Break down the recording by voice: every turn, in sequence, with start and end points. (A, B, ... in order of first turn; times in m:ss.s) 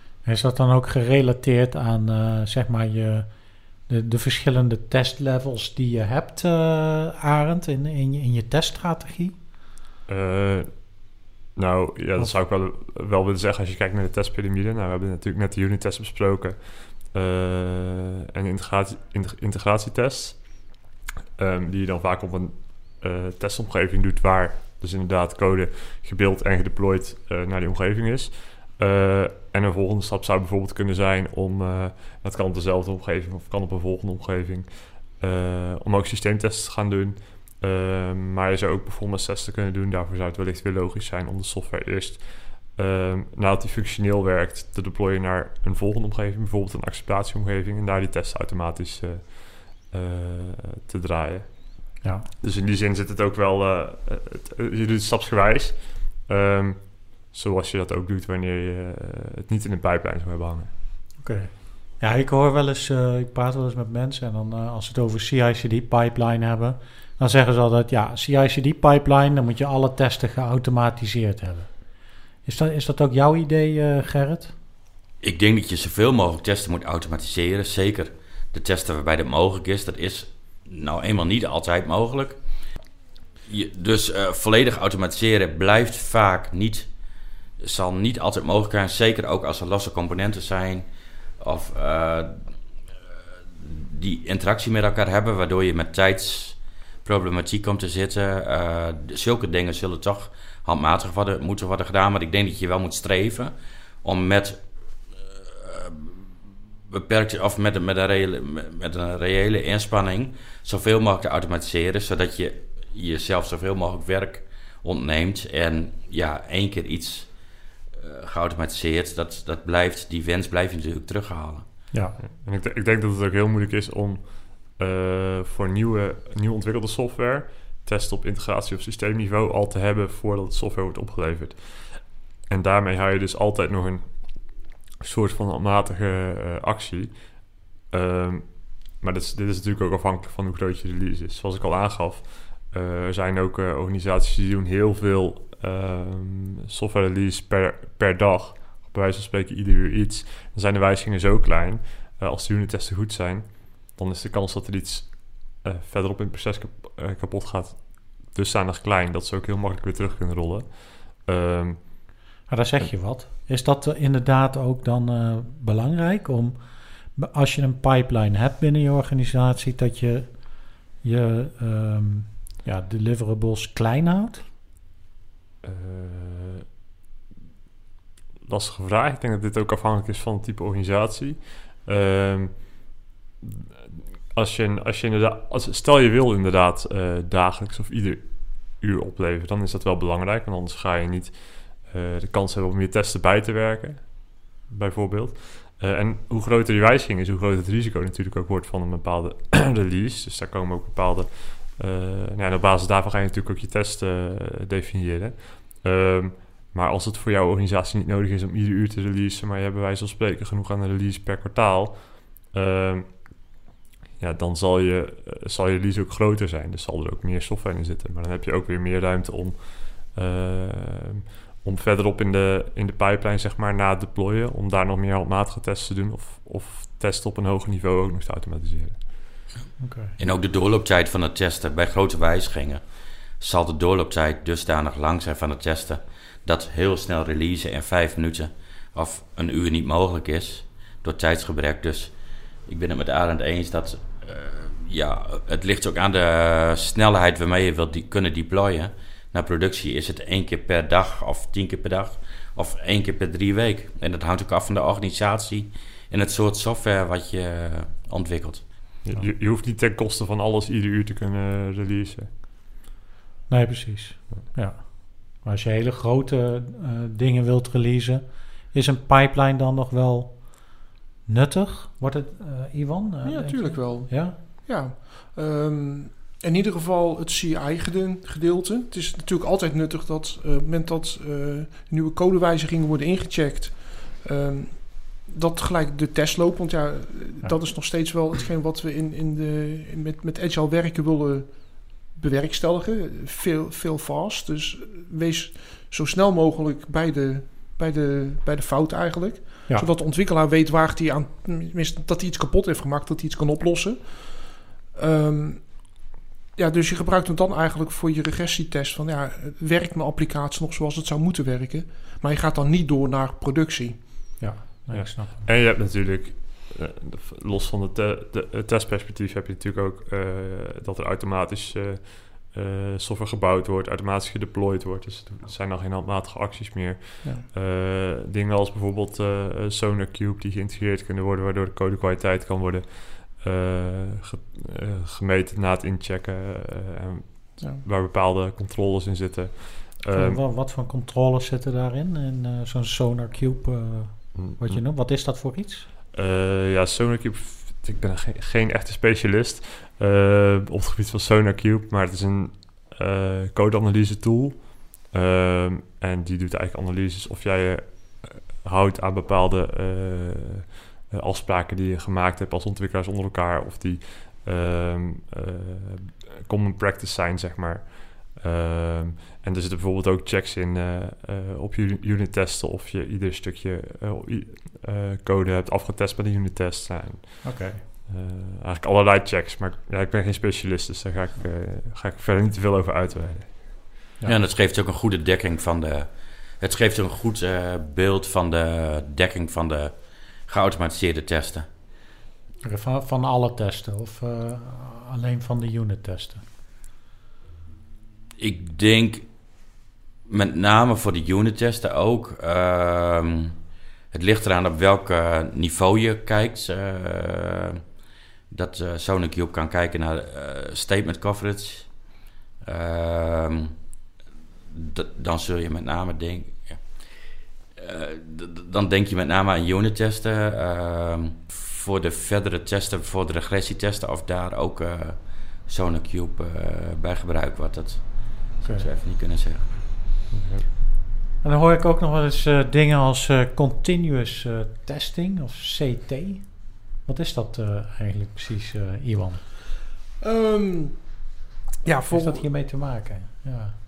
0:00.2-0:09.4 A
0:10.1-0:20.7 B
0:21.4-1:00.7 B
0:52.0-0:52.3 A
1:01.2-1:14.6 A
1:15.2-1:22.4 C
1:23.5-1:26.9 C
1:27.6-1:30.9 C
1:31.4-1:32.6 C
1:33.6-1:46.1 C
1:46.9-1:57.3 C
1:58.0-2:01.7 C
2:02.2-2:42.1 B
2:42.5-2:54.5 A
2:55.6-2:56.6 B
2:58.4-3:33.5 B
3:34.2-3:49.4 B
3:49.8-3:50.1 A
3:50.2-4:02.2 C
4:02.7-4:18.9 C
4:19.0-4:22.3 B
4:23.5-4:34.4 A
4:33.2-5:06.0 D
5:06.6-5:14.4 D
5:14.4-5:15.4 A
5:14.9-5:40.4 B
5:40.1-5:45.9 A
5:44.4-5:44.8 B
5:46.1-6:24.0 B
6:17.4-6:17.8 A
6:24.3-6:31.7 C
6:32.6-6:36.4 A
6:38.4-6:39.5 C
6:40.3-6:43.6 C
6:44.1-6:47.8 C
6:48.5-6:52.0 C
6:52.6-6:53.8 C
6:54.7-6:56.9 C
6:57.8-7:09.8 C
7:08.6-7:08.9 A
7:10.3-7:10.6 B
7:11.4-7:19.5 A
7:20.2-7:21.2 D
7:21.8-7:22.5 D
7:22.1-7:23.8 A